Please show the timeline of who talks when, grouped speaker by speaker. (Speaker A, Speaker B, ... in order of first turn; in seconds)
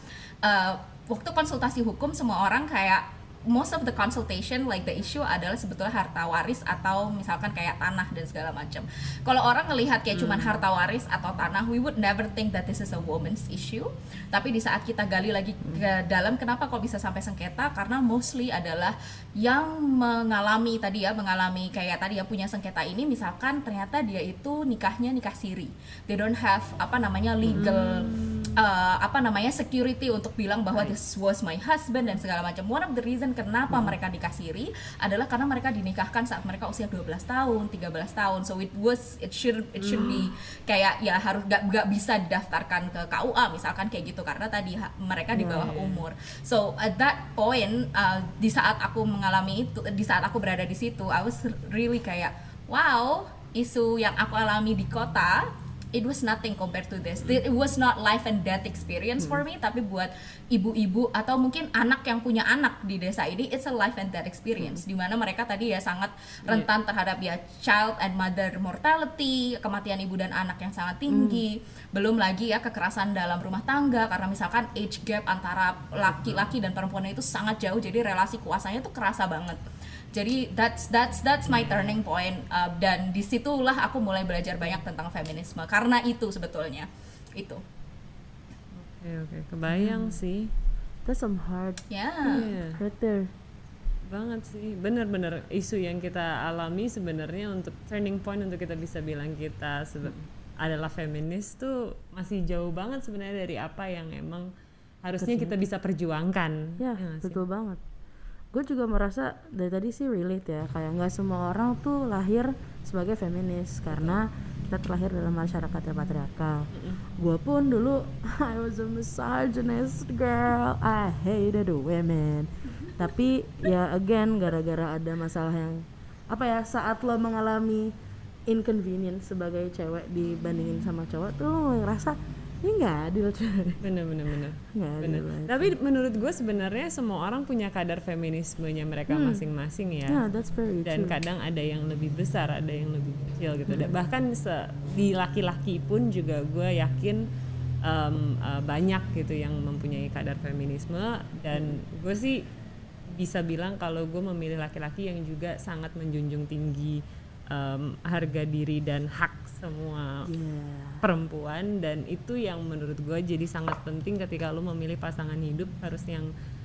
Speaker A: 0.4-79.6, 80.1-87.6, 91.9-92.5
Speaker B: 10.1-10.6, 27.5-28.5, 39.8-40.1, 45.5-46.0, 76.1-76.4, 81.5-82.0, 88.7-90.5, 92.3-92.8, 94.1-104.5, 105.0-107.4, 113.9-114.2, 116.7-117.0, 133.8-140.2, 140.8-147.3, 147.8-152.4, 153.1-160.3, 161.0-166.3
Speaker C: 40.0-40.3, 45.3-45.7, 71.1-71.4, 89.7-90.2, 91.0-93.3, 105.2-105.6, 106.8-107.8, 108.5-127.9, 128.5-133.8, 134.7-135.7, 139.1-139.4, 140.1-141.2, 143.7-143.9, 151.5-151.8, 160.2-161.1